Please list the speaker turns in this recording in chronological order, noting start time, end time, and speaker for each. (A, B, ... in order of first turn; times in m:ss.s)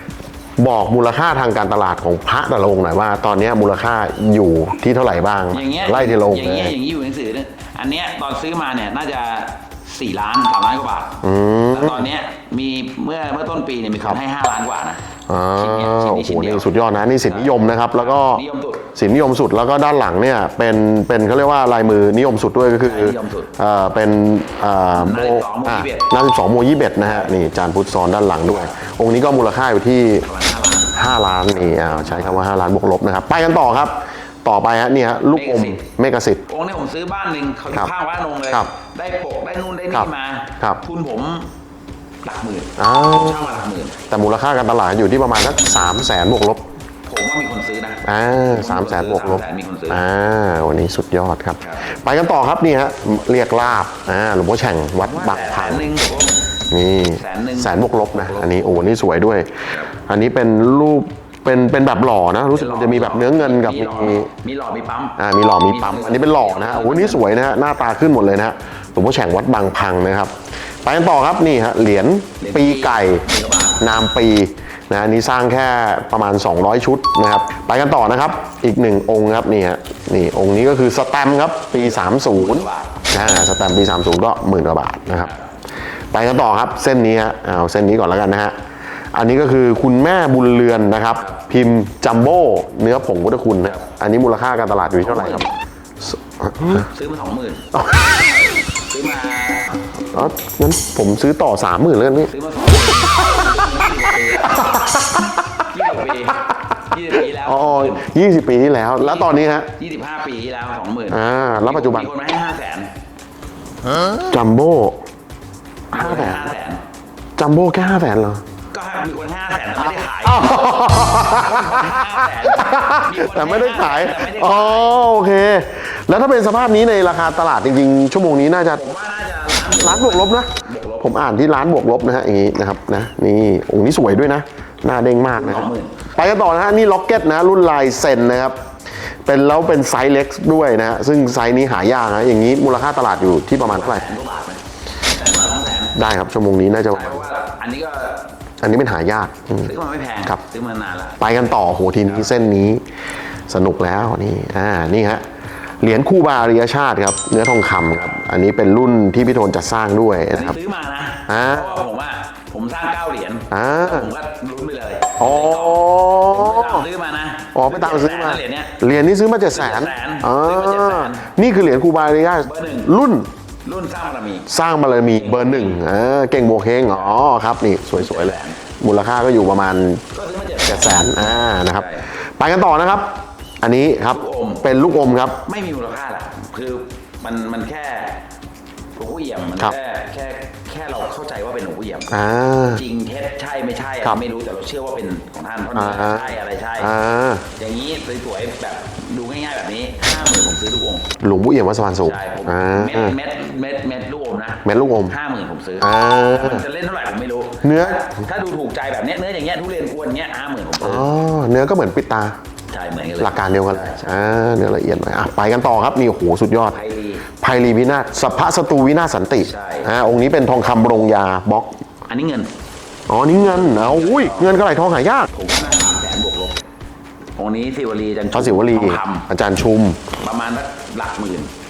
0:00.6-0:06.7 A
0:05.5-0:11.2 B
0:11.2-0:12.1 A
0:11.7-0:15.0 B
0:15.3-0:30.2 A
0:15.6-0:16.7 B
0:17.2-0:18.9 B
0:22.8-0:23.5 B
0:24.9-0:26.1 B
0:27.0-0:27.3 B
0:28.5-0:28.8 B
0:30.2-0:32.4 B
0:30.9-0:36.4 A
0:35.3-0:35.8 B
0:36.4-0:41.5 B
0:39.9-0:40.8 A
0:42.2-0:44.0 B
0:42.8-0:43.4 A
0:44.1-0:46.6 A
0:47.0-0:50.0 B
0:48.0-0:55.9 A
0:51.6-0:51.9 B
0:55.0-0:56.4 B
0:56.7-1:04.3 A
0:57.1-0:58.8 B
1:02.5-1:07.3 B
1:05.2-1:13.2 A
1:12.4-1:13.9 B
1:13.8-1:25.3 A
1:21.8-1:23.1 B
1:25.1-1:25.4 B
1:26.1-1:28.5 A
1:29.1-1:35.5 A
1:33.6-1:33.9 B
1:35.0-1:35.5 B
1:36.0-1:36.8 A
1:36.6-1:37.6 B
1:37.7-1:38.2 A
1:38.3-1:39.7 B
1:40.1-1:42.3 A
1:42.3-1:44.8 B
1:42.8-1:43.7 A
1:44.4-1:46.4 A
1:45.7-1:48.0 B
1:47.2-1:49.7 A
1:49.0-1:52.9 B
1:51.1-1:52.1 A
1:54.1-1:55.0 A
1:55.9-1:56.5 A
1:55.9-1:56.8 B
1:57.4-1:58.4 A
1:58.7-2:05.0 B
2:00.0-2:08.8 A
2:08.7-2:11.1 B
2:09.7-2:18.6 A
2:15.3-2:16.0 B
2:19.2-2:24.1 A
2:23.6-2:26.0 B
2:25.9-2:27.3 A
2:26.9-2:28.3 B
2:28.6-2:29.7 A
2:29.6-2:31.2 B
2:31.2-2:32.8 A
2:32.0-2:32.3 B
2:33.5-2:35.2 A
2:35.8-2:40.6 A
2:40.3-2:48.8 B
2:41.3-2:41.8 A
2:43.5-2:44.1 A
2:45.2-2:46.9 A
2:47.5-2:53.3 A
2:49.5-2:51.2 B
2:52.4-2:52.9 B
2:53.6-2:54.5 B
2:54.5-3:00.0 A
2:55.1-2:55.8 B
2:56.9-2:57.2 B
2:57.9-2:58.6 B
3:00.1-3:02.1 B
3:00.6-3:05.4 A
3:04.1-3:04.6 B
3:05.4-3:08.2 B
3:09.0-3:12.2 B
3:12.1-3:12.8 A
3:12.7-3:16.9 B
3:15.7-3:17.4 A
3:17.5-3:21.1 B
3:21.2-3:23.2 A
3:22.0-3:31.1 B
3:24.6-3:25.1 A
3:25.8-3:26.6 A
3:27.6-3:28.1 A
3:30.8-3:32.4 A
3:32.7-3:34.2 B
3:33.2-3:36.8 A
3:36.7-3:37.2 B
3:37.4-3:41.8 A
3:39.4-3:39.9 B
3:42.1-3:42.5 B
3:43.1-3:45.3 A
3:43.3-3:44.5 B
3:45.3-3:46.6 B
3:47.4-3:49.3 B
3:48.3-3:50.0 A
3:50.2-3:51.5 B